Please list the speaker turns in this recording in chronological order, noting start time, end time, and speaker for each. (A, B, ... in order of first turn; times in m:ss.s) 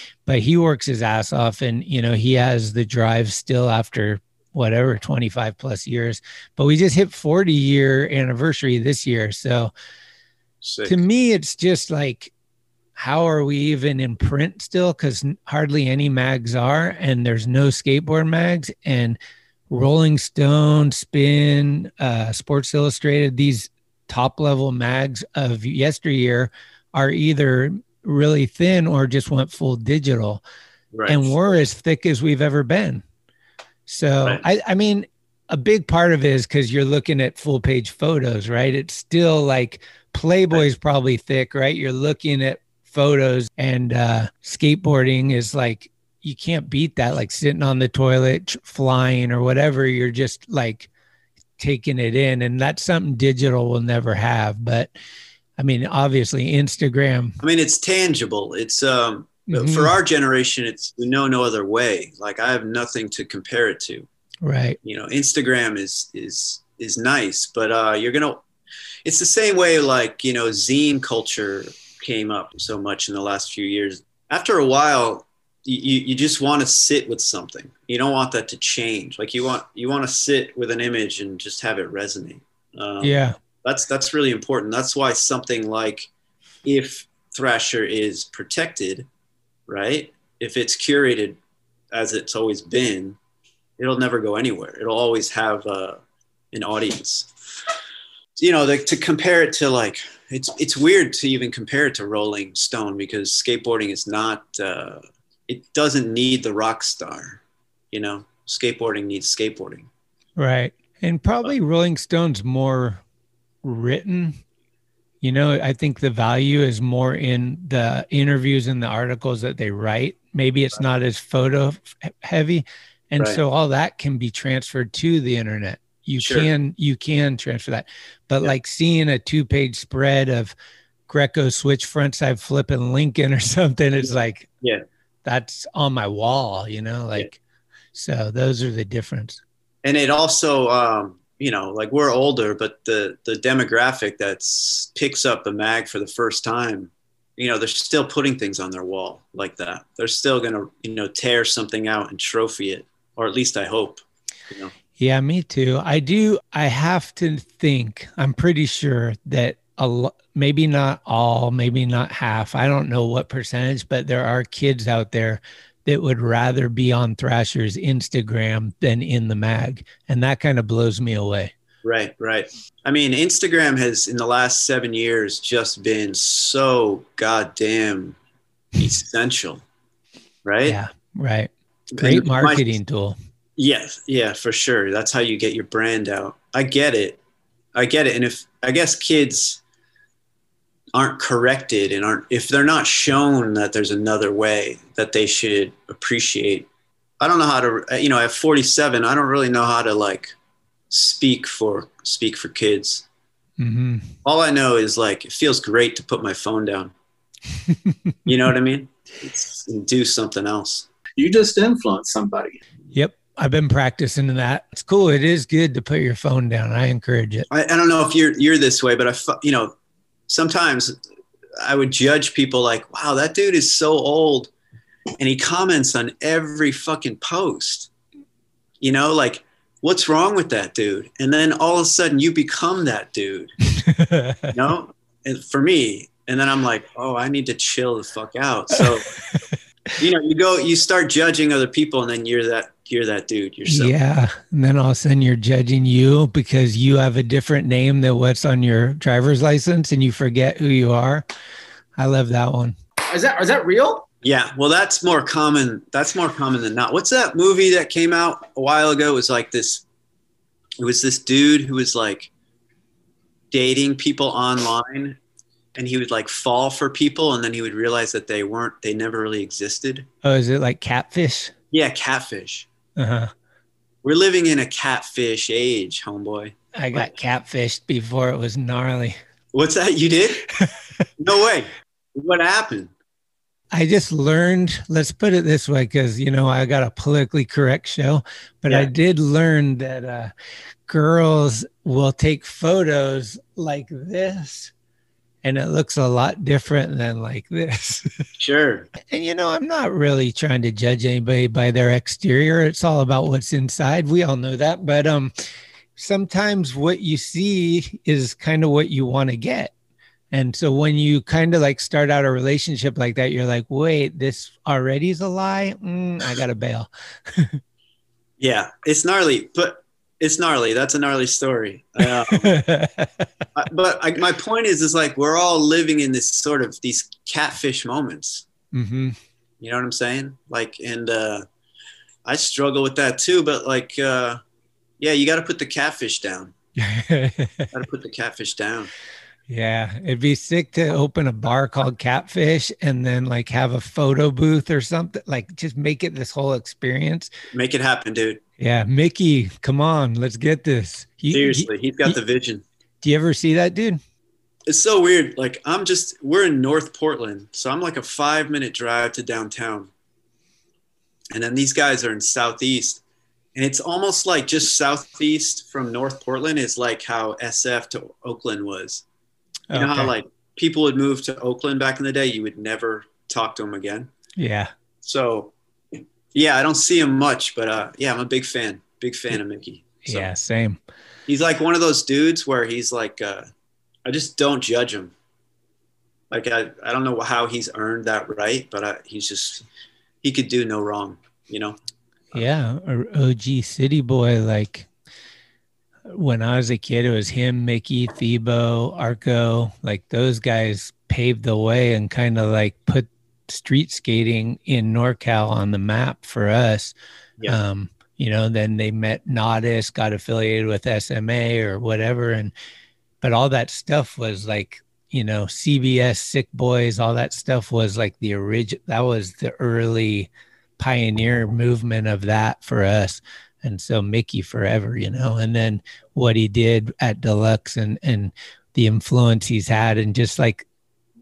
0:00.3-0:09.7 A
0:10.6-0:11.0 B
0:10.8-0:12.3 A
0:13.0-0:19.2 A
0:19.7-0:30.4 A
0:30.9-0:31.2 B
0:31.1-0:33.0 A
0:33.9-0:50.9 A
0:51.6-0:54.9 A
0:55.6-0:57.4 A
0:57.4-1:04.1 B
0:59.5-1:00.0 A
1:04.4-1:04.8 A
1:04.8-1:08.4 B
1:09.0-1:26.1 B
1:23.0-1:23.4 A
1:26.6-1:29.1 B
1:29.7-1:31.4 B
1:31.9-1:33.2 B
1:33.8-1:36.0 B
1:36.5-1:37.3 B
1:38.4-1:47.4 B
1:47.9-1:49.9 B
1:50.4-1:53.0 A
1:53.6-1:54.4 A
1:55.2-2:10.6 A
2:06.2-2:06.5 B
2:11.1-2:14.5 A
2:14.0-2:14.8 B
2:15.2-2:17.4 A
2:17.9-2:19.4 A
2:19.8-2:34.7 B
2:35.0-2:51.5 A
2:51.8-2:58.2 B
2:58.8-2:59.6 B
3:00.4-3:00.8 B
3:00.7-3:03.2 A
3:02.0-3:02.7 B
3:03.6-3:07.2 B
3:07.7-3:09.6 B
3:10.9-3:16.7 B
3:17.2-3:20.3 B
3:20.9-3:23.0 B
3:23.6-3:24.1 A
3:24.2-3:26.9 B
3:27.7-3:28.2 A
3:28.3-3:30.9 B
3:31.2-3:32.6 C
3:32.9-3:37.5 A
3:37.5-3:39.7 B
3:40.3-3:41.0 B
3:41.6-3:44.5 B
3:45.2-3:47.9 B
3:48.8-3:53.5 B
3:53.8-3:54.5 A
3:54.5-3:59.1 B
3:59.3-3:59.6 A
4:00.0-4:03.9 B
4:03.7-4:11.3 A
4:12.0-4:12.8 A
4:13.1-4:14.1 C
4:14.2-4:19.8 B
4:20.8-4:22.3 B
4:23.5-4:25.2 B
4:25.8-4:30.1 B
4:30.2-4:31.5 A
4:31.7-4:32.7 B
4:33.0-4:33.3 A
4:34.0-4:37.1 B
4:36.8-4:39.2 A
4:39.5-4:40.5 B
4:40.5-4:41.0 A
4:41.2-4:42.9 B
4:43.7-4:50.3 A
4:50.9-4:54.7 A
4:55.4-4:58.2 A
4:58.4-4:58.9 B
4:59.0-5:05.3 A
5:06.0-5:09.7 A
5:10.3-5:17.6 A
5:18.4-5:22.6 B
5:22.2-5:23.3 A
5:23.6-5:28.5 B
5:28.7-5:29.2 A
5:29.6-5:31.5 B
5:32.2-5:34.4 B
5:35.0-5:36.5 B
5:36.8-5:37.7 A
5:37.7-5:38.9 B
5:39.5-5:47.3 A
5:47.5-5:48.4 B
5:48.6-5:52.2 A
5:51.3-5:52.6 B
5:53.0-5:54.0 A
5:54.7-5:59.9 B
6:01.3-6:03.0 B
6:03.6-6:09.0 B
6:09.7-6:10.1 A
6:09.7-6:14.1 B
6:14.4-6:14.7 A
6:15.0-6:15.5 B
6:16.3-6:20.3 B
6:20.0-6:20.8 A
6:21.3-6:23.5 B
6:24.0-6:25.1 B
6:26.3-6:29.6 B
6:30.2-6:31.8 B
6:32.3-6:34.9 A
6:36.1-6:52.5 A
6:53.2-7:10.7 A